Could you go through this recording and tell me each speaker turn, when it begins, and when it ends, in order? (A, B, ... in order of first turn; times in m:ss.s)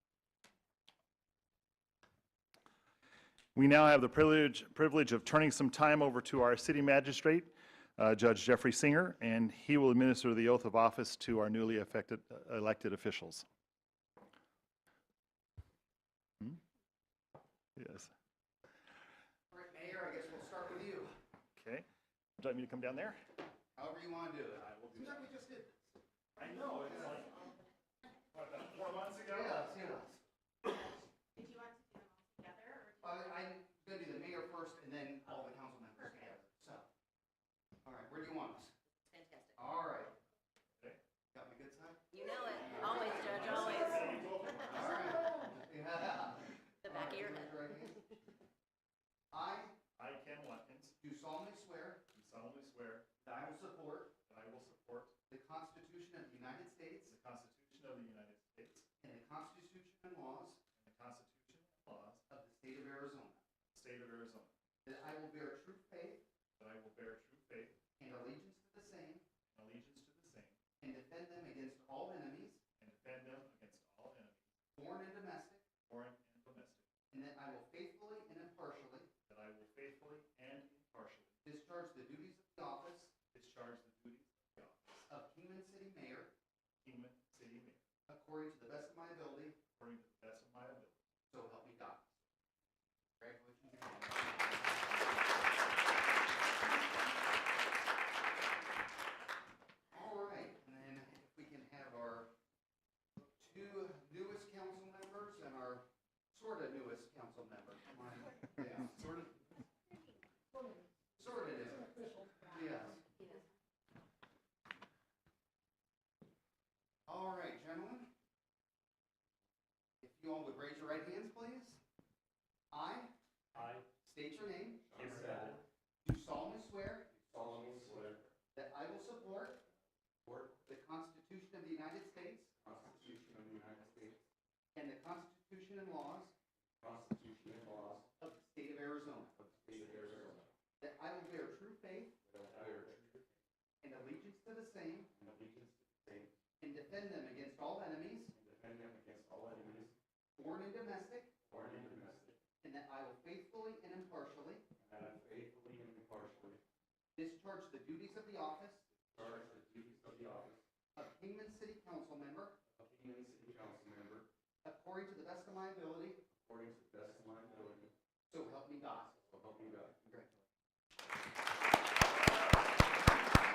0:03.6-0:13.4 A
0:17.8-0:18.1 A
0:19.5-0:21.1 B
0:21.6-0:21.8 A
0:22.4-0:23.2 A
0:23.8-0:25.9 B
0:24.6-0:25.3 A
0:26.4-0:27.5 A
0:28.3-0:29.6 A
0:29.3-0:30.2 B
0:31.3-0:33.3 C
0:33.0-0:36.9 B
0:37.8-0:38.7 B
0:39.0-0:39.5 C
0:39.6-0:40.2 B
0:41.3-0:48.1 B
0:42.3-0:44.1 D
0:42.8-0:44.0 C
0:43.2-0:44.9 A
0:47.1-0:47.5 C
0:49.3-0:49.8 B
0:50.0-0:51.0 A
0:51.0-0:52.0 B
0:52.1-0:53.0 A
0:53.2-0:54.1 B
0:54.3-0:55.1 A
0:55.3-0:57.1 B
0:57.1-0:58.9 A
0:59.0-1:00.6 B
1:00.8-1:02.2 A
1:02.3-1:03.4 B
1:03.7-1:04.5 A
1:04.8-1:06.2 B
1:06.6-1:07.8 A
1:08.0-1:09.2 B
1:09.5-1:10.6 A
1:10.8-1:12.6 B
1:12.8-1:14.4 A
1:14.8-1:15.6 B
1:15.9-1:16.9 A
1:17.1-1:19.1 B
1:19.3-1:21.4 A
1:21.4-1:23.1 B
1:23.3-1:25.1 A
1:25.1-1:26.3 B
1:26.8-1:27.8 A
1:28.1-1:29.6 B
1:29.7-1:31.0 A
1:31.3-1:32.1 B
1:33.2-1:35.0 B
1:39.9-1:42.3 B
1:43.2-1:49.3 B
1:51.2-1:53.1 B
1:57.1-1:58.1 B
2:00.0-2:01.8 B
2:02.7-2:03.1 B
2:03.5-2:03.8 A
2:04.0-2:05.1 B
2:04.9-2:05.6 D
2:05.0-2:05.6 A
2:06.0-2:07.3 B
2:07.3-2:08.3 D
2:08.5-2:09.6 B
2:10.2-2:10.5 D
2:10.6-2:12.5 B
2:12.6-2:14.2 D
2:14.7-2:16.3 B
2:16.8-2:18.1 D
2:18.2-2:20.1 B
2:19.6-2:20.5 D
2:20.8-2:22.3 B
2:22.3-2:23.2 D
2:23.8-2:25.1 B
2:25.1-2:26.3 D
2:26.6-2:28.3 B
2:28.3-2:29.9 D
2:30.4-2:31.3 B
2:31.5-2:32.4 D
2:32.6-2:34.6 B
2:34.8-2:36.6 D
2:37.2-2:38.9 B
2:39.1-2:40.6 D
2:40.9-2:42.6 B
2:42.7-2:44.2 D
2:44.6-2:46.2 B
2:46.3-2:47.9 D
2:48.3-2:50.3 B
2:49.4-2:50.0 D